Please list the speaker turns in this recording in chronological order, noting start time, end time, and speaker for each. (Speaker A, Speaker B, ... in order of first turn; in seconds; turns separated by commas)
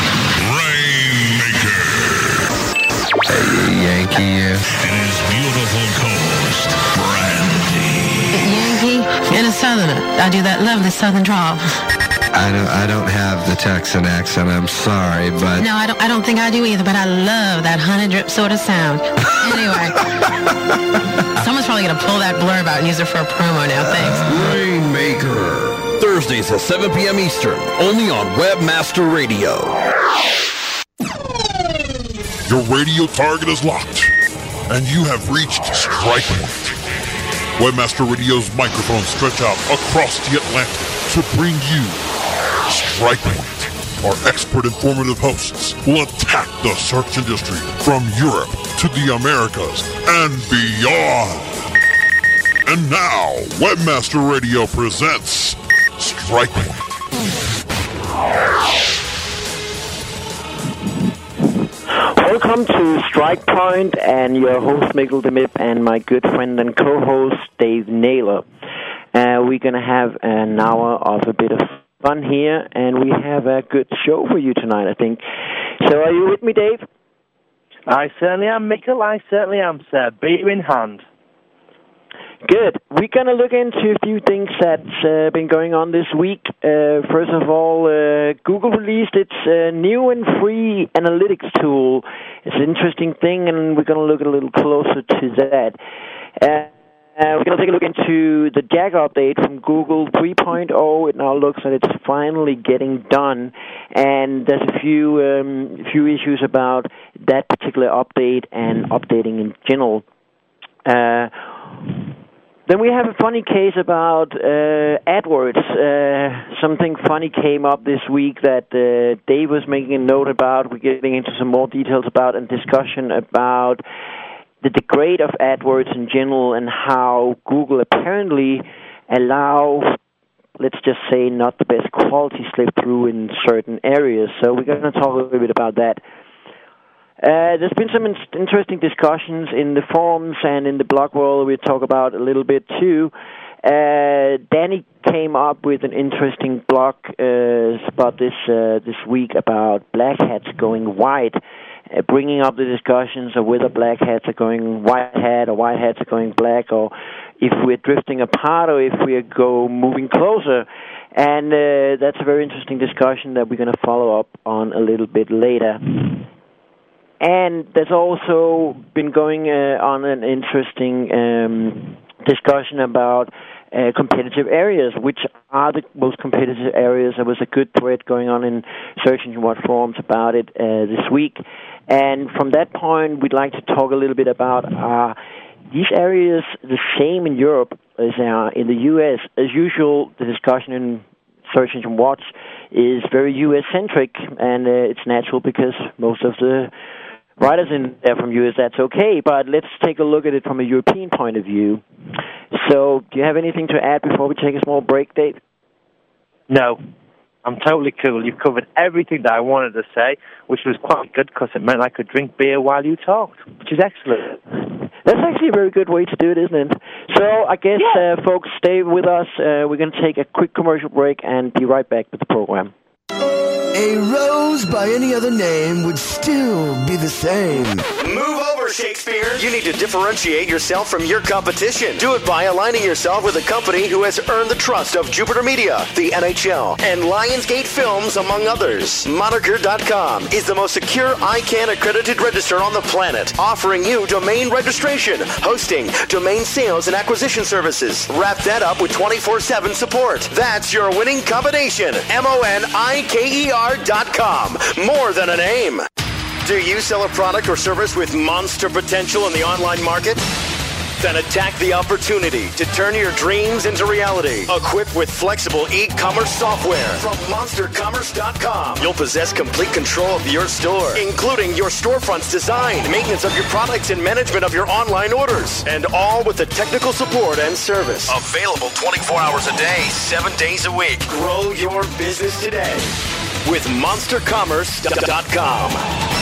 Speaker A: 0.4-2.4, Speaker B: 3.5-4.0, Speaker A: 4.8-8.5, Speaker C: 8.4-11.8, Speaker B: 12.4-15.3, Speaker C: 15.6-20.0, Speaker C: 21.4-24.2, Speaker D: 24.2-29.8, Speaker E: 32.5-34.1, Speaker E: 34.7-36.8, Speaker E: 37.6-42.1, Speaker E: 42.6-51.6, Speaker E: 52.7-56.8, Speaker F: 61.9-68.5, Speaker F: 69.1-75.2, Speaker F: 75.8-76.8, Speaker G: 77.9-81.0, Speaker F: 82.5-95.8, Speaker F: 96.4-110.0, Speaker F: 110.9-111.6, Speaker F: 112.7-123.8, Speaker F: 124.6-130.0, Speaker F: 130.6-136.0, Speaker F: 137.2-166.2, Speaker F: 167.2-185.2, Speaker F: 185.7-196.7, Speaker F: 197.4-201.8, Speaker F: 202.5-205.4, Speaker G: 206.5-206.8, Speaker G: 207.4-214.4, Speaker F: 215.1-222.7, Speaker H: 223.7-227.9, Speaker I: 228.0-255.9, Speaker I: 256.4-260.2, Speaker I: 261.0-282.9, Speaker I: 283.4-285.8